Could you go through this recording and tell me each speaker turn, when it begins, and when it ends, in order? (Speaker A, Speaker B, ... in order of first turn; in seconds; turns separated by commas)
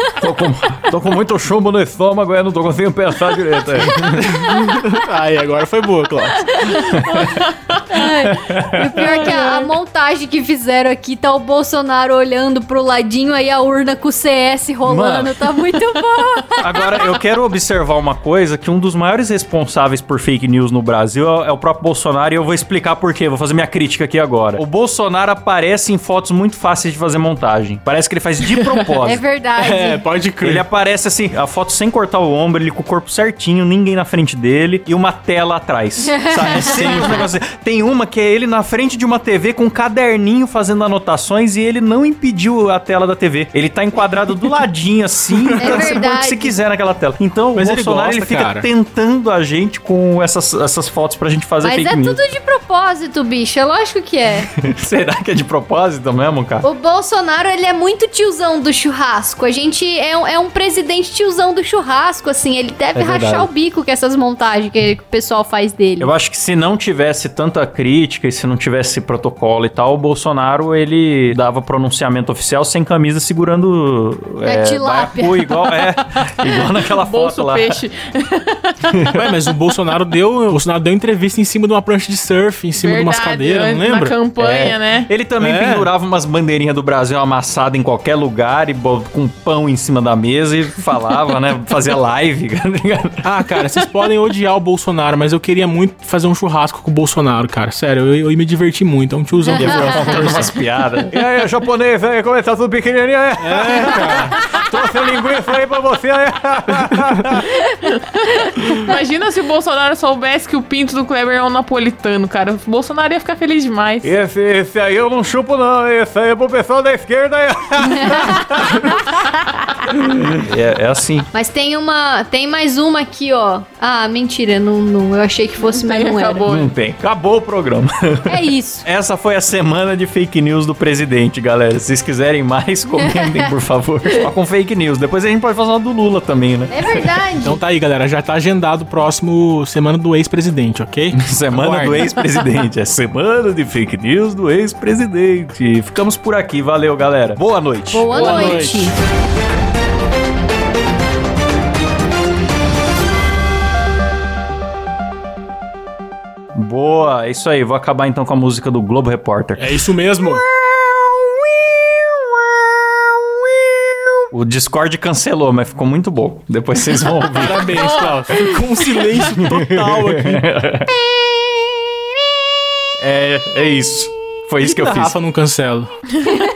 Speaker A: 0.2-4.6, Speaker B: 4.1-4.7, Speaker C: 4.4-6.7, Speaker B: 6.5-7.3, Speaker A: 6.7-7.3, Speaker D: 7.1-7.8, Speaker B: 7.9-17.1, Speaker A: 8.3-8.9, Speaker D: 8.9-9.7, Speaker A: 14.8-15.6, Speaker A: 16.6-29.2, Speaker B: 29.0-30.0, Speaker C: 29.6-30.6, Speaker A: 30.4-52.2, Speaker B: 36.0-37.3, Speaker C: 45.4-45.9, Speaker B: 45.6-46.6, Speaker C: 47.5-48.7, Speaker B: 51.6-54.5, Speaker A: 54.6-56.7, Speaker B: 56.6-66.1, Speaker A: 62.9-63.5, Speaker A: 66.0-77.7, Speaker B: 74.4-75.4, Speaker D: 75.6-75.9, Speaker D: 76.4-79.0, Speaker C: 79.1-84.1, Speaker D: 82.7-85.1, Speaker A: 84.4-93.2, Speaker C: 85.4-85.9, Speaker C: 93.2-100.5, Speaker A: 99.5-107.5, Speaker B: 99.7-100.3, Speaker C: 103.4-104.4, Speaker D: 107.9-114.1, Speaker B: 108.4-108.8, Speaker A: 114.0-119.0, Speaker A: 120.3-121.3, Speaker B: 121.3-126.4, Speaker D: 125.6-126.7, Speaker A: 126.5-137.0, Speaker B: 128.3-128.8, Speaker B: 132.9-133.5, Speaker B: 136.7-137.6, Speaker C: 137.4-142.1, Speaker A: 141.1-148.6, Speaker B: 147.9-148.9, Speaker C: 148.1-148.9, Speaker A: 156.5-159.7, Speaker C: 159.6-160.4, Speaker A: 164.3-167.7, Speaker C: 167.4-170.4, Speaker D: 167.6-169.0, Speaker A: 169.2-170.9, Speaker A: 173.0-175.1, Speaker C: 174.6-175.9